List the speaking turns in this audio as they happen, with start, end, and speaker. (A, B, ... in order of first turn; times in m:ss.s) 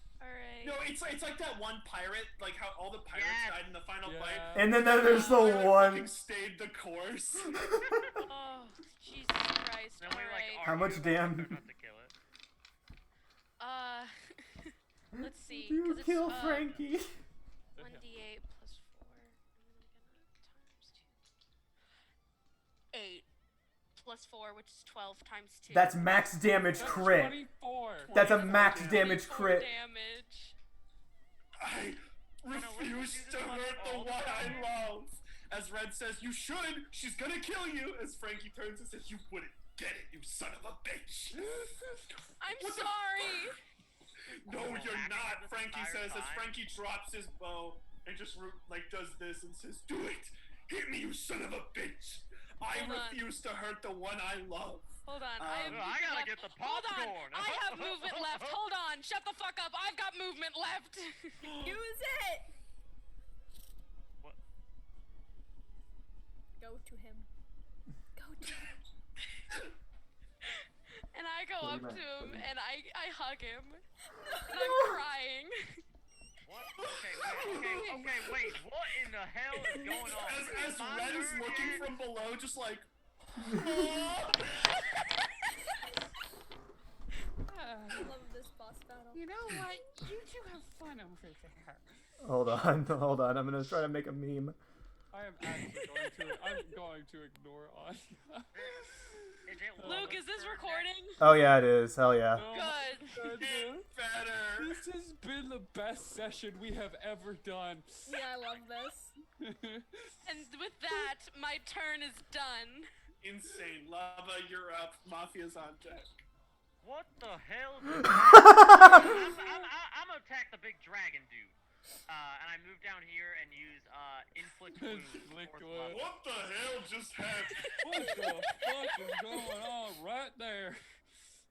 0:00.2-0:00.8 A
0:00.6-0:07.6 B
0:03.1-0:03.8 C
0:04.0-0:04.8 D
0:04.5-0:06.1 E
0:05.0-0:05.6 A
0:08.0-0:08.2 C
0:08.3-0:10.8 A
0:10.0-0:12.2 C
0:10.6-0:11.6 E
0:13.6-0:16.8 A
0:15.2-0:17.1 E
0:17.8-0:18.1 D
0:17.8-0:21.2 A
0:22.9-0:23.3 A
0:24.0-0:26.1 A
0:25.7-0:27.4 E
0:26.8-0:28.2 D
0:28.0-0:29.1 B
0:28.1-0:29.7 E
0:28.5-0:30.6 A
0:31.6-0:41.4 B
0:32.5-0:34.7 C
0:34.3-0:34.7 A
0:41.4-0:42.2 D
0:42.4-0:43.6 A
0:42.6-0:43.4 B
0:44.4-0:46.6 C
0:44.5-0:55.8 B
0:52.7-0:53.3 A
0:55.0-1:01.5 A
0:55.7-0:58.6 C
1:01.4-1:01.8 B
1:01.6-1:02.5 F
1:06.6-1:07.3 F
1:08.2-1:08.7 F
1:10.5-1:13.8 A
1:11.6-1:12.5 E
1:14.2-1:15.0 F
1:14.5-1:15.5 A
1:16.4-1:22.0 C
1:16.8-1:18.1 B
1:17.4-1:18.5 D
1:19.7-1:22.8 B
1:23.5-1:24.8 B
1:27.5-1:28.1 D
1:27.9-1:29.2 F
1:29.1-1:31.8 D
1:32.2-1:34.6 E
1:35.1-1:40.2 D
1:38.5-1:38.9 C
1:39.5-1:41.0 C
1:39.8-1:41.2 A
1:41.2-1:42.5 E
1:42.3-1:43.9 D
1:42.5-1:43.2 A
1:43.2-1:44.7 B
1:44.6-1:48.2 D
1:48.1-1:49.1 F
1:49.4-1:50.1 D
1:50.2-1:52.9 A
1:53.2-1:56.1 B
1:56.8-2:06.0 C
1:58.8-1:59.7 D
2:04.8-2:06.0 D
2:05.9-2:07.7 B
2:07.6-2:08.6 A
2:07.8-2:10.8 D